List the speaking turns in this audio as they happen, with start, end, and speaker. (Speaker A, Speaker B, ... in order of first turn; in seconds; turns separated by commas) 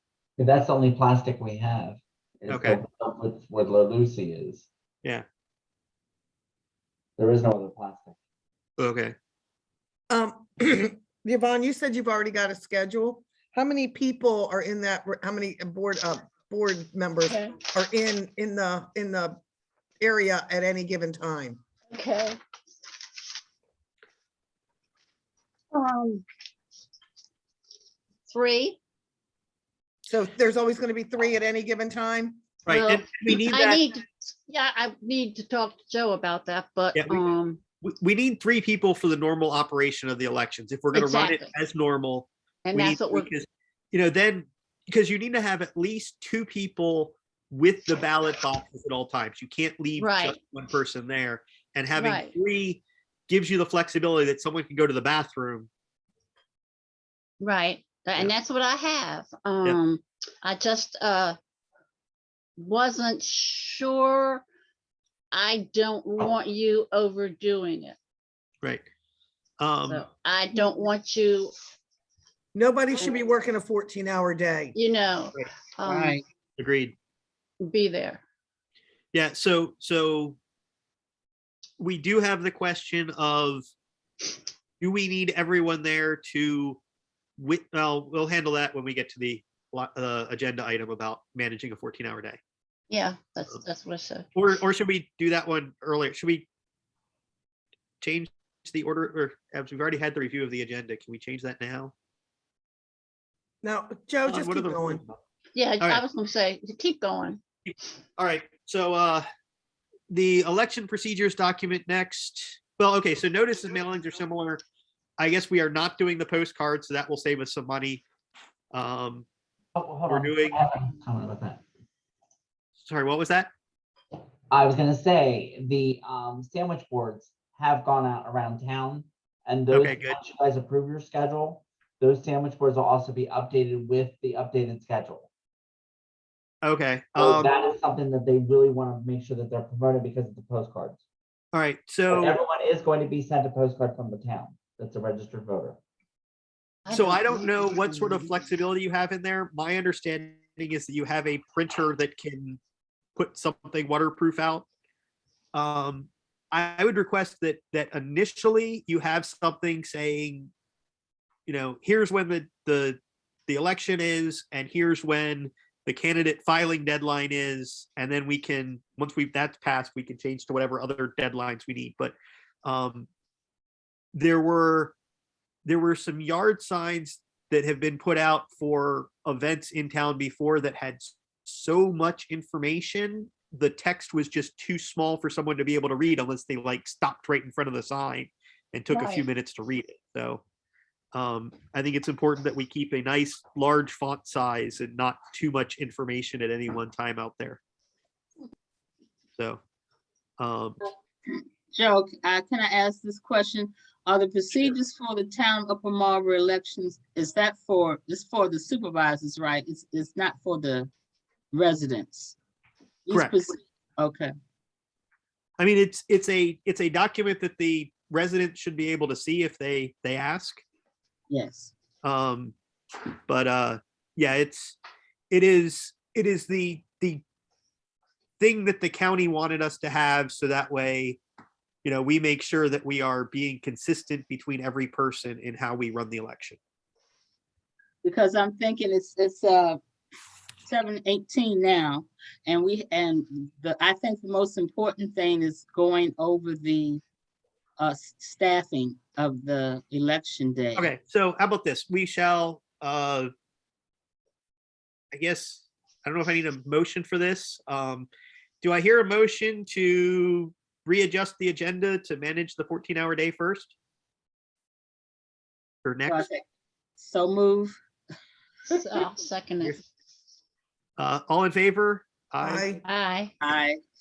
Speaker A: 0.4-4.7, Speaker B: 2.5-2.8, Speaker A: 7.2-8.2, Speaker B: 8.8-9.1, Speaker C: 10.1-19.4, Speaker D: 17.2-17.6, Speaker C: 20.0-21.6, Speaker D: 21.9-22.4, Speaker D: 25.7-26.2, Speaker D: 28.3-28.8, Speaker C: 30.1-32.4, Speaker B: 32.6-33.9, Speaker D: 32.6-37.6, Speaker B: 36.9-37.2, Speaker B: 37.8-55.7, Speaker D: 40.9-41.5, Speaker D: 42.6-43.3, Speaker D: 50.0-50.4, Speaker D: 52.0-52.3, Speaker D: 57.4-61.4, Speaker D: 62.6-64.5, Speaker D: 65.3-68.0, Speaker B: 69.6-70.0, Speaker D: 69.8-71.5, Speaker C: 72.5-74.7, Speaker D: 74.7-76.2, Speaker E: 75.8-76.2, Speaker B: 76.6-76.9, Speaker D: 77.6-78.2, Speaker B: 79.1-80.4, Speaker B: 81.8-83.7, Speaker B: 84.8-86.8, Speaker B: 87.4-92.4, Speaker D: 92.9-94.3, Speaker B: 94.3-96.5, Speaker B: 98.0-101.9, Speaker C: 103.6-105.0, Speaker B: 104.2-105.2, Speaker D: 105.5-107.4, Speaker B: 107.7-109.2, Speaker B: 110.1-114.6, Speaker B: 115.2-118.0, Speaker B: 118.7-119.2, Speaker A: 119.7-121.6, Speaker B: 120.1-120.5, Speaker B: 122.8-123.5, Speaker A: 124.5-135.3, Speaker B: 129.7-130.2, Speaker B: 136.6-137.5, Speaker A: 137.2-141.0, Speaker B: 141.5-142.3, Speaker A: 142.1-145.8, Speaker D: 146.8-148.3, Speaker B: 146.9-152.6, Speaker B: 153.2-154.7, Speaker B: 155.5-160.5, Speaker B: 161.5-173.1, Speaker B: 174.1-174.9, Speaker B: 175.6-190.4, Speaker D: 188.9-189.2, Speaker B: 191.1-197.6, Speaker B: 200.4-200.8, Speaker E: 201.3-210.9, Speaker E: 211.5-212.4, Speaker E: 213.1-214.3, Speaker B: 213.1-213.4, Speaker B: 215.6-220.6, Speaker E: 221.3-221.7, Speaker B: 222.0-222.5, Speaker B: 223.3-224.8, Speaker B: 225.3-227.2, Speaker B: 228.4-231.2, Speaker B: 231.8-236.6, Speaker E: 238.0-239.8, Speaker E: 240.6-247.0, Speaker E: 247.8-250.9, Speaker B: 250.8-253.3, Speaker B: 255.1-258.1, Speaker B: 258.6-263.7, Speaker B: 265.8-266.2, Speaker E: 266.0-266.4, Speaker E: 267.0-267.8, Speaker D: 268.7-269.8, Speaker B: 271.0-272.7, Speaker C: 272.4-272.8, Speaker D: 272.8-273.3, Speaker E: 273.4-273.8